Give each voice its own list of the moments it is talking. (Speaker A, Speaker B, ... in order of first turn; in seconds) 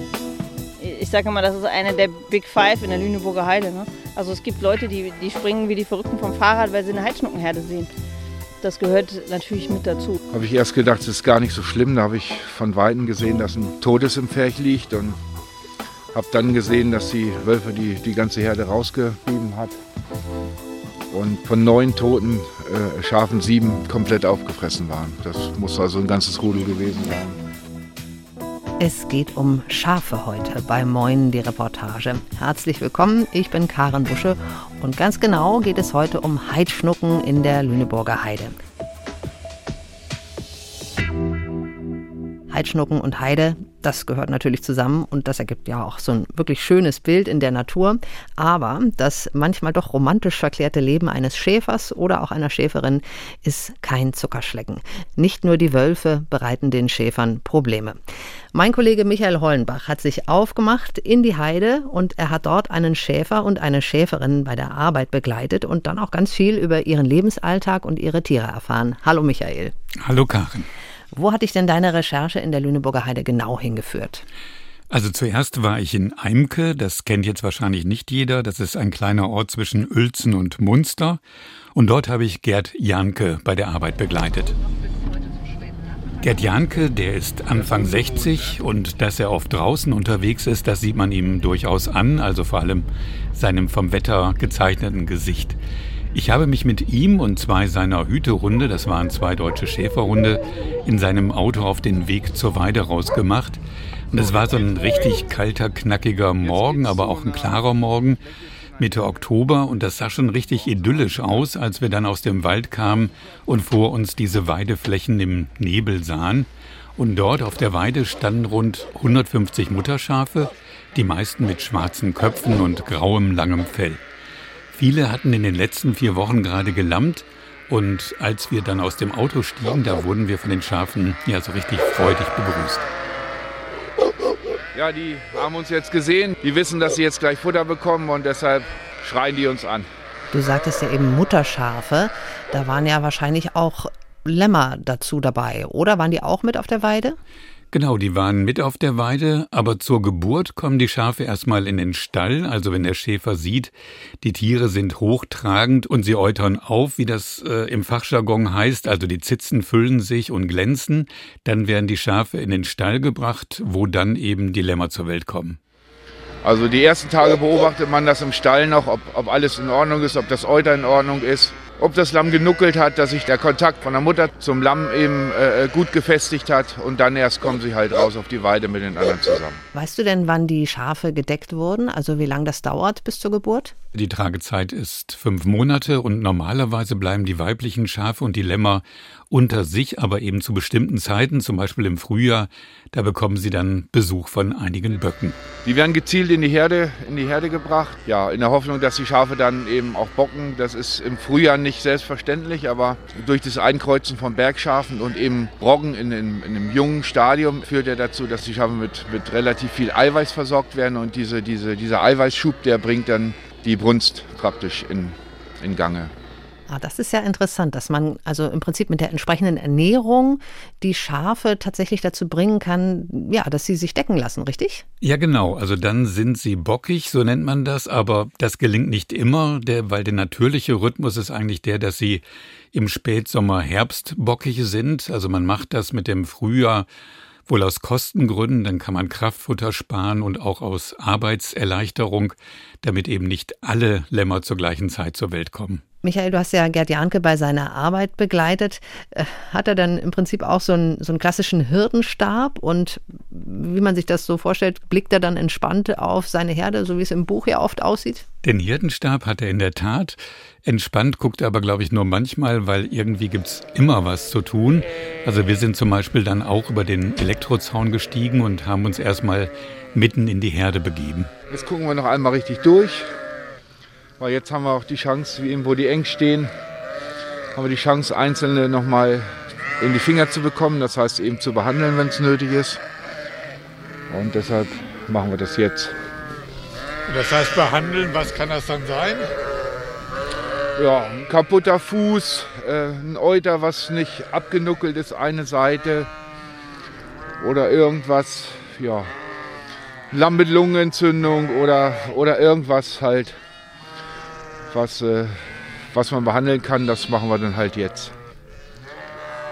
Speaker A: 0.8-7.9, 8.6-10.2
Speaker B: 10.3-15.2, 16.1-19.8, 21.1-27.4, 134.7-139.9, 166.4-179.6, 195.6-216.1, 271.5-273.1, 274.2-276.5, 277.6-282.8, 284.1-286.0, 290.8-296.1, 297.4-299.1, 300.1-303.4, 304.7-308.1
Speaker C: 28.8-38.6, 42.5-58.0, 58.5-69.7, 71.1-74.2, 140.3-147.2, 179.7-183.7, 216.7-224.8, 246.0-258.3
Speaker D: 70.0-70.7, 74.9-81.2, 81.7-84.6, 86.2-95.6, 96.1-108.2, 108.8-124.0, 124.7-132.8, 147.7-153.7, 154.2-165.6, 183.9-195.4, 225.0-232.2, 232.7-236.9, 237.5-245.8, 258.4-271.3
Speaker E: 287.1-289.3